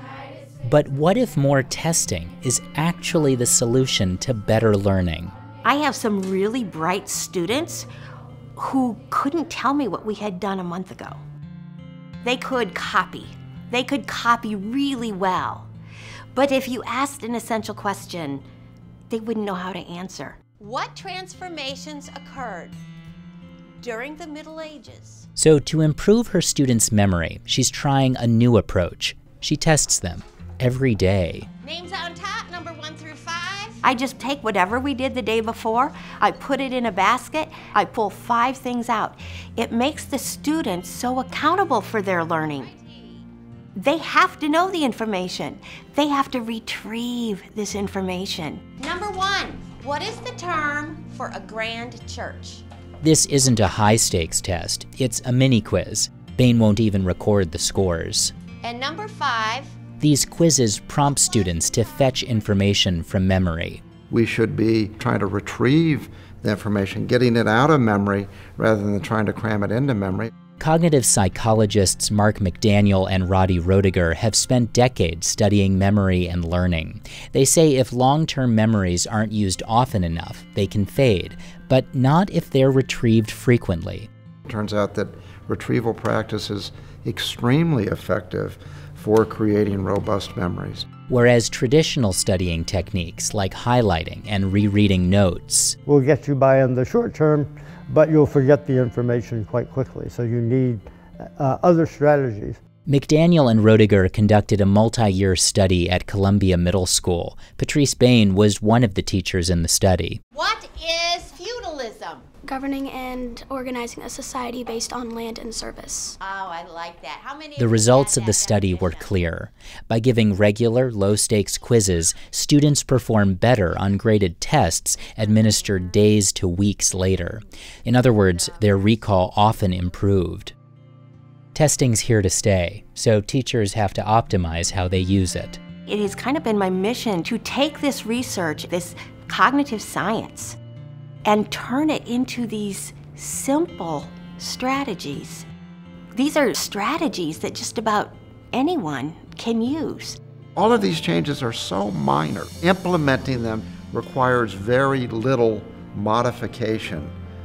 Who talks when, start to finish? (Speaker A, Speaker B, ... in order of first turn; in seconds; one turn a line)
Speaker A: 0.6-5.3
Speaker B: 5.6-7.9
Speaker B: 8.6-11.2
Speaker B: 12.2-15.7
Speaker B: 16.3-18.4
Speaker B: 19.1-20.4
Speaker C: 20.6-22.8
Speaker C: 23.8-25.3
Speaker A: 25.4-31.5
Speaker C: 31.6-33.8
Speaker B: 33.8-42.7
Speaker C: 42.6-43.0
Speaker B: 43.7-48.6
Speaker C: 48.8-52.6
Speaker A: 53.0-58.3
Speaker C: 58.6-59.8
Speaker A: 60.0-63.8
Speaker D: 64.1-70.3
Speaker A: 70.6-84.1
Speaker D: 84.5-90.9
Speaker A: 91.1-95.8
Speaker E: 95.8-102.6
Speaker A: 102.9-110.2
Speaker C: 110.3-112.2
Speaker F: 112.5-116.2
Speaker C: 116.2-119.1
Speaker A: 117.6-130.5
Speaker A: 131.5-135.6
Speaker B: 135.9-140.6
Speaker B: 141.2-145.5
Speaker B: 146.1-150.2
Speaker D: 150.6-157.1